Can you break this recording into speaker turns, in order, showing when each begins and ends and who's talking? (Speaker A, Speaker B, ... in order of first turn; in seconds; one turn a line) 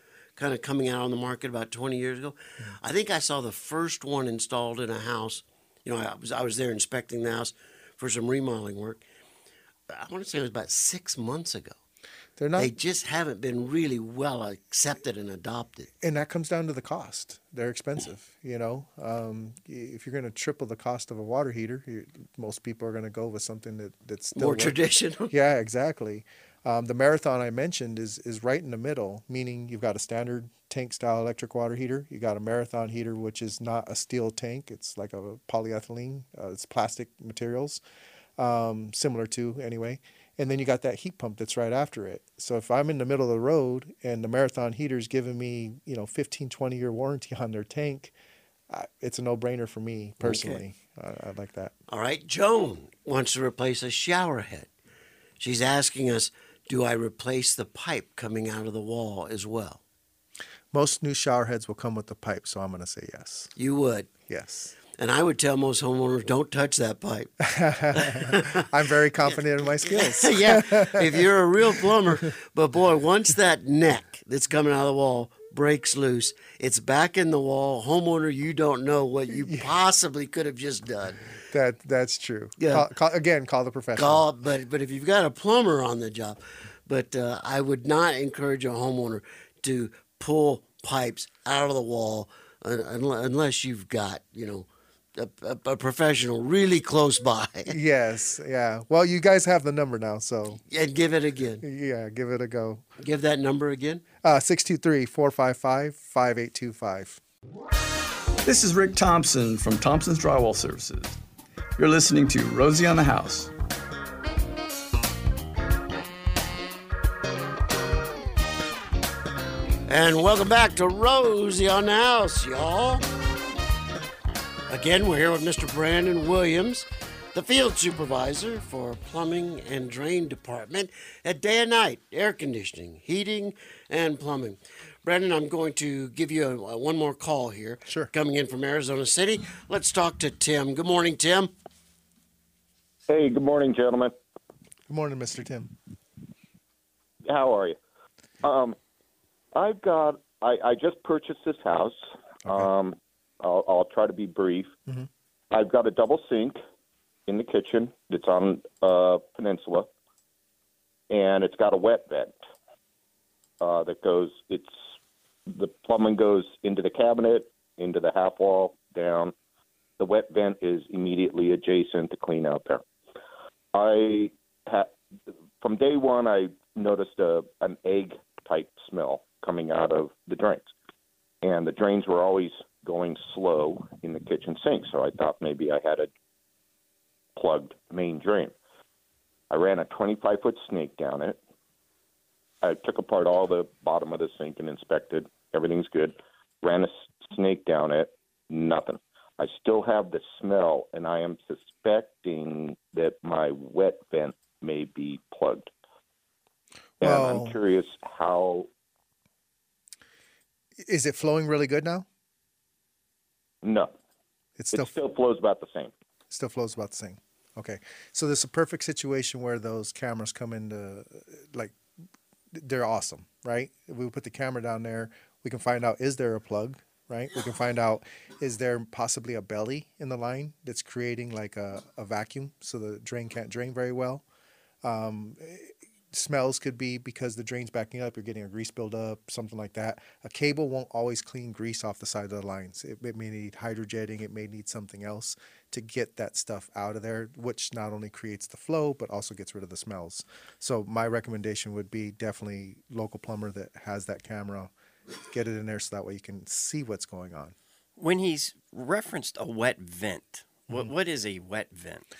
Speaker A: 0.4-9.0
Speaker A: 9.9-11.8
Speaker B: 12.4-12.7
Speaker A: 12.6-15.9
Speaker B: 16.0-24.8
Speaker A: 24.4-25.3
Speaker B: 25.3-37.8
Speaker B: 38.4-48.1
Speaker B: 48.7-51.8
Speaker A: 50.2-50.6
Speaker A: 51.9-54.7
Speaker A: 55.4-59.8
Speaker B: 60.7-63.5
Speaker A: 63.6-64.1
Speaker B: 64.3-64.8
Speaker A: 65.0-67.3
Speaker B: 67.4-71.9
Speaker A: 67.9-68.7
Speaker A: 69.3-81.2
Speaker B: 79.3-79.7
Speaker B: 81.5-84.3
Speaker A: 82.6-82.9
Speaker A: 84.0-97.8
Speaker B: 97.7-100.6
Speaker A: 100.6-101.6
Speaker B: 101.6-102.9
Speaker A: 103.0-104.0
Speaker B: 104.2-107.2
Speaker C: 108.4-111.2
Speaker C: 111.8-113.5
Speaker A: 119.9-123.0
Speaker A: 124.7-141.5
Speaker B: 137.9-138.1
Speaker D: 143.1-144.1
Speaker B: 144.9-145.7
Speaker D: 147.3-147.8
Speaker D: 148.4-148.8
Speaker D: 149.5-154.7
Speaker D: 155.5-156.6
Speaker D: 157.3-159.9
Speaker D: 161.1-162.4
Speaker D: 163.6-164.8
Speaker D: 165.5-169.3
Speaker D: 170.0-172.8
Speaker D: 173.7-174.9
Speaker D: 175.6-180.7
Speaker D: 181.4-186.1
Speaker D: 187.4-188.6
Speaker D: 189.5-191.4
Speaker D: 192.6-205.7
Speaker D: 207.0-208.7
Speaker B: 207.0-207.6
Speaker B: 210.8-212.1
Speaker D: 213.6-213.9
Speaker B: 214.6-214.9
Speaker D: 214.7-215.9
Speaker B: 216.3-221.8
Speaker B: 222.5-234.2
Speaker B: 234.8-254.7
Speaker B: 255.3-257.6
Speaker E: 258.0-262.0